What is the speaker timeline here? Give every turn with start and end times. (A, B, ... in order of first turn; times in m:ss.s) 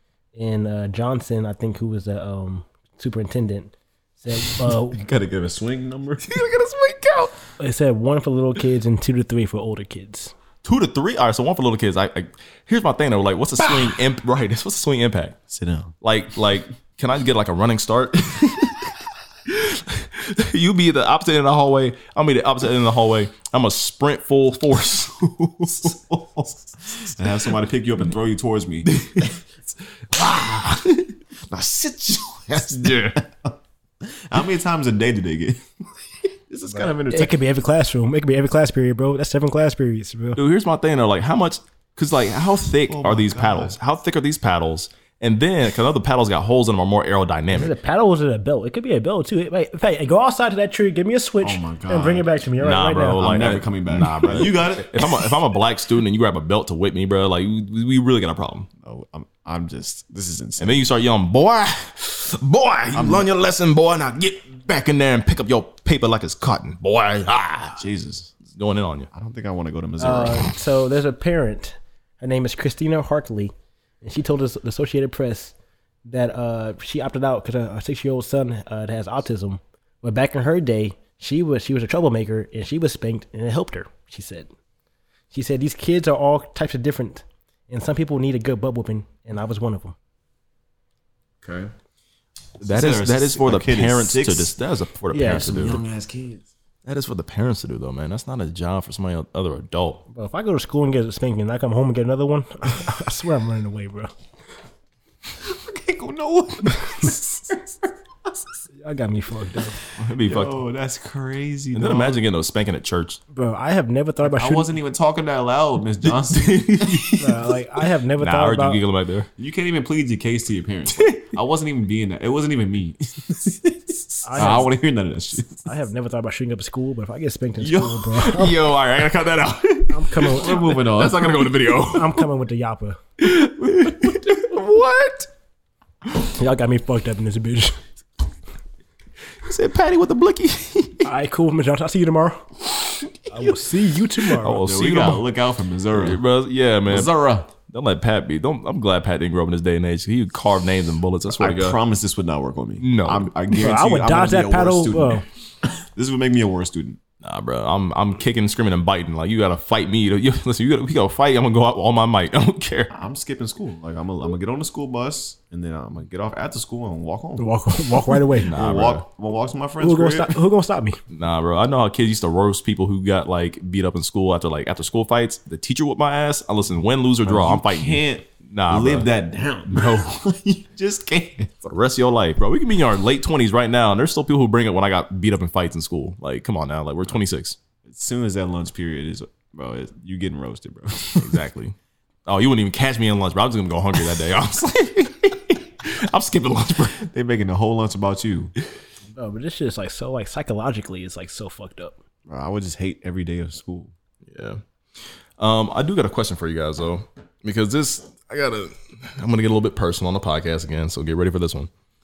0:00.4-0:05.0 A
0:04.9-0:06.4 B
0:06.2-0:07.3 C
0:07.6-0:10.3 A
0:10.6-0:15.4 C
0:15.5-0:15.9 B
0:16.0-0:18.9 C
0:19.5-0:25.9 C
0:25.6-0:29.3 B
0:28.9-0:29.3 C
0:30.1-0:31.1 C
0:31.5-0:35.6 B
0:32.7-0:33.2 C
0:36.2-0:37.4 B
0:36.8-0:40.4 A
0:40.4-0:47.7 C
0:42.8-0:43.8 B
0:47.5-0:53.3 A
0:51.4-0:52.3 B
0:52.6-0:58.7 C
0:53.2-0:55.3 B
0:58.8-1:00.8 B
1:00.6-1:07.8 C
1:02.9-1:03.3 B
1:07.8-1:08.3 B
1:08.5-1:09.1 C
1:09.1-1:10.5 B
1:10.0-1:15.6 A
1:16.1-1:24.5 A
1:25.3-1:30.0 A
1:31.4-1:31.7 B
1:32.6-1:34.6 B
1:32.6-1:35.8 C
1:35.1-1:35.8 A
1:35.2-1:36.5 B
1:36.8-1:40.0 C
1:40.1-1:44.1 A
1:45.4-1:47.7 B
1:48.8-1:49.8 A
1:50.0-1:50.6 C
1:50.2-1:52.2 B
1:51.7-1:53.2 C
1:53.3-1:54.7 A
1:54.2-1:57.1 B
1:56.3-1:57.2 C
1:57.2-1:58.8 A
1:58.2-1:59.3 C
1:59.4-2:05.6 B
2:01.0-2:01.3 C
2:04.2-2:04.7 A
2:05.7-2:08.6 A
2:07.6-2:08.2 B
2:08.3-2:12.2 C
2:09.9-2:10.8 A
2:10.2-2:11.5 B
2:11.8-2:13.0 A
2:13.2-2:15.3 C
2:16.2-2:17.8 A
2:19.4-2:21.1 C
2:21.0-2:22.4 A
2:23.3-2:24.6 A
2:24.4-2:25.2 C
2:24.6-2:26.2 B
2:26.0-2:31.8 C
2:26.9-2:27.5 B
2:31.3-2:37.0 B
2:32.8-2:33.3 C
2:33.5-2:35.2 A
2:37.2-2:42.9 C
2:42.9-2:47.5 B
2:47.4-2:48.5 A
2:48.1-2:50.4 B
2:48.4-2:49.0 C
2:49.8-2:51.0 A
2:51.1-2:59.1 C
2:57.2-3:01.5 B
2:59.8-3:00.1 C
3:01.6-3:07.6 C
3:07.8-3:11.4 B
3:11.2-3:11.8 C
3:12.3-3:17.0 C
3:17.0-3:18.5 B
3:19.2-3:22.0 A
3:22.3-3:23.9 B
3:24.3-3:31.7 C